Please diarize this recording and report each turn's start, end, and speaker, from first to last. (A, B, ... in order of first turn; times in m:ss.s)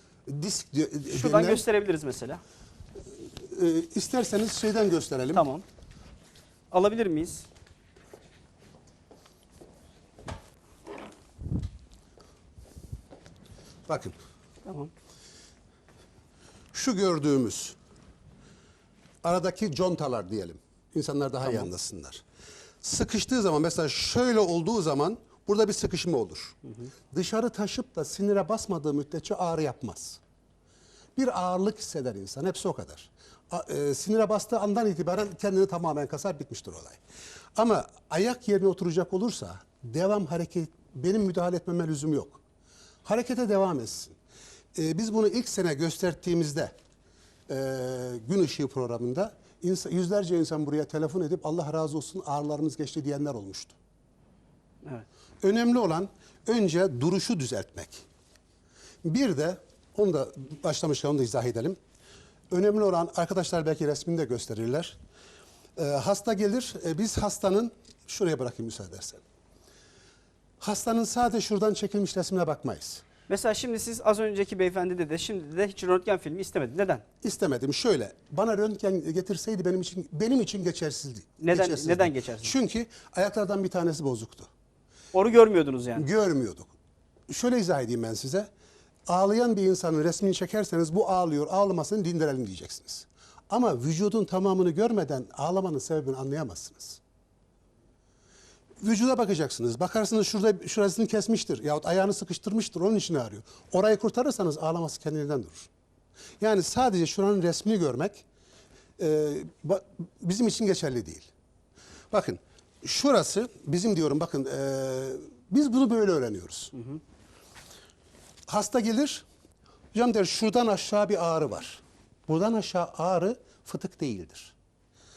0:00.3-0:01.6 A
0:01.1-0:02.4 B
0:03.4-0:05.4 A
0:05.3-0:05.6 B
0:06.7-0:07.5 B
0:13.9-0:14.2 A
0:14.6-0:14.9 B
0:16.7-0:17.8 A
0:19.2-0:22.2 A
0:22.8-0:26.6 A
0:27.1-0:30.2 A
0:31.2-0:37.0 A
0:37.6-0:42.4 A
0:43.0-0:44.2 A
0:44.8-0:46.7 A
0:47.5-0:53.8 A
0:55.4-0:58.0 A
0:59.0-1:01.8 A
1:02.5-1:05.0 A
1:05.8-1:09.2 A
1:10.6-1:13.0 A
1:13.3-1:17.0 B
1:17.2-1:24.5 A
1:21.4-1:22.6 B
1:25.1-1:26.1 B
1:26.0-1:26.7 A
1:27.3-1:28.5 A
1:29.1-1:37.0 A
1:38.8-1:45.7 A
1:46.4-1:48.2 A
1:49.0-1:51.3 A
1:52.1-1:56.7 A
1:58.5-1:59.2 A
1:59.9-2:04.5 A